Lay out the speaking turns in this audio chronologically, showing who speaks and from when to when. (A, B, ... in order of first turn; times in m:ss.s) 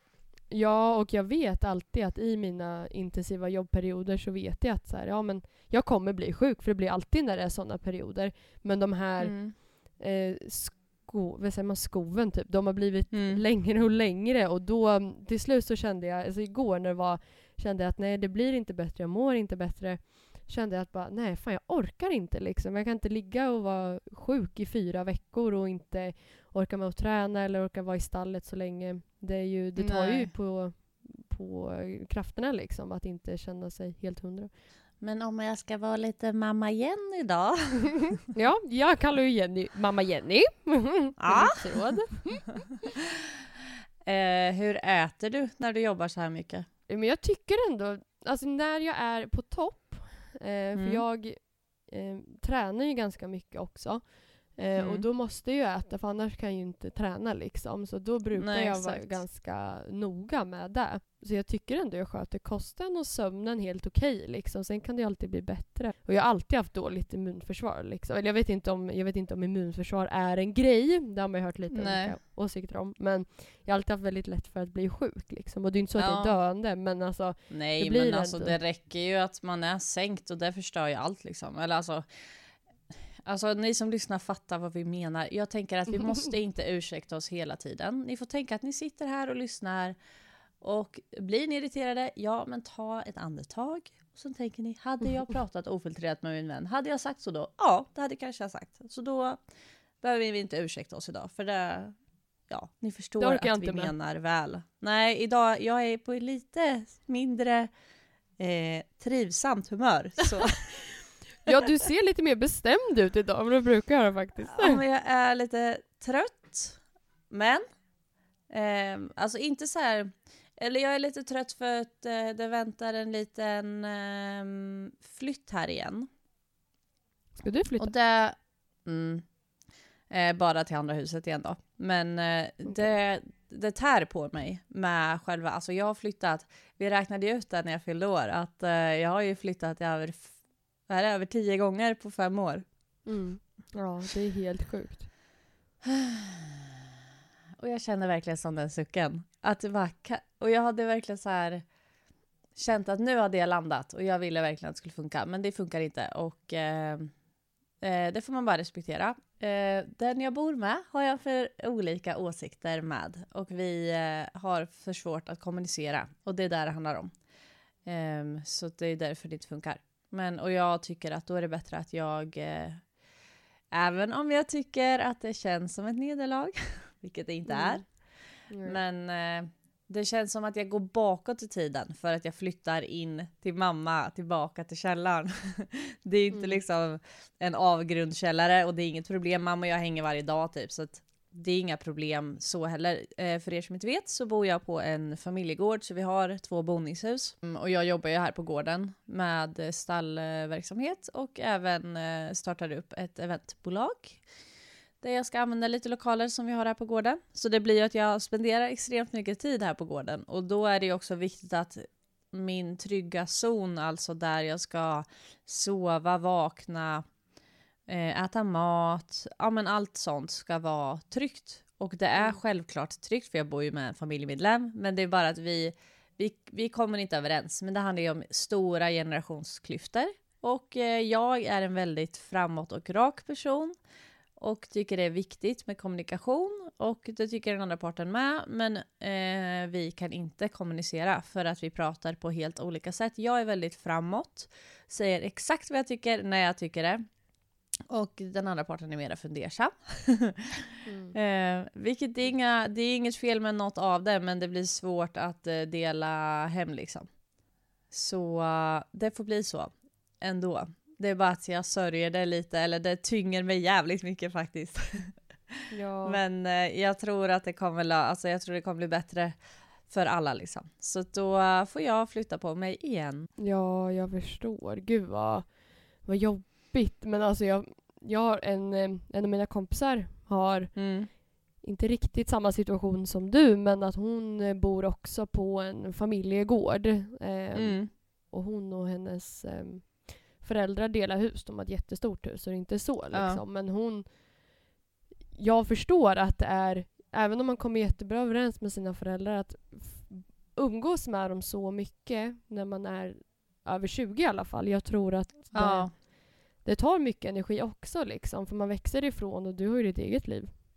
0:00.5-0:34.5 A
0:09.2-0:09.6 B
0:13.1-0:13.4 B
0:29.8-0:30.3 B
0:35.0-0:38.2 B
0:38.3-0:42.5 A
0:41.2-0:41.8 B
0:44.0-0:46.7 B
0:46.9-1:18.6 A
0:50.8-0:51.0 B
0:54.8-0:55.0 B
0:58.4-0:59.2 B
1:11.7-1:12.2 B
1:16.0-1:16.4 B
1:17.5-1:22.0 B
1:23.2-1:30.0 B
1:30.6-1:39.4 B
1:40.0-1:42.0 B
1:42.5-1:47.7 B
1:43.2-1:43.9 A
1:48.4-1:50.7 B
1:51.4-1:54.8 A
1:54.5-1:57.6 B
1:58.5-2:06.1 B
2:07.4-2:07.9 A
2:07.8-2:09.2 B
2:10.1-2:20.4 B
2:20.9-2:22.6 B
2:23.1-2:25.1 A
2:25.8-2:26.8 B
2:27.6-2:31.6 B
2:32.6-2:37.1 B
2:37.8-2:47.1 B
2:47.8-2:52.9 B
2:53.7-2:58.1 B
2:57.5-2:57.9 A
2:58.5-2:58.8 A
2:58.6-3:24.2 B
3:06.3-3:06.6 A
3:25.0-3:37.0 B
3:37.9-3:53.7 B
3:54.4-4:07.0 B
4:07.9-4:17.1 B
4:10.9-4:11.2 A
4:17.9-4:29.4 B
4:25.7-4:26.2 A
4:29.9-4:33.3 B
4:33.4-4:54.1 A
4:40.8-4:41.1 B
4:47.6-4:47.9 B
4:53.1-4:53.4 B
4:55.4-5:10.5 A
5:05.5-5:05.9 B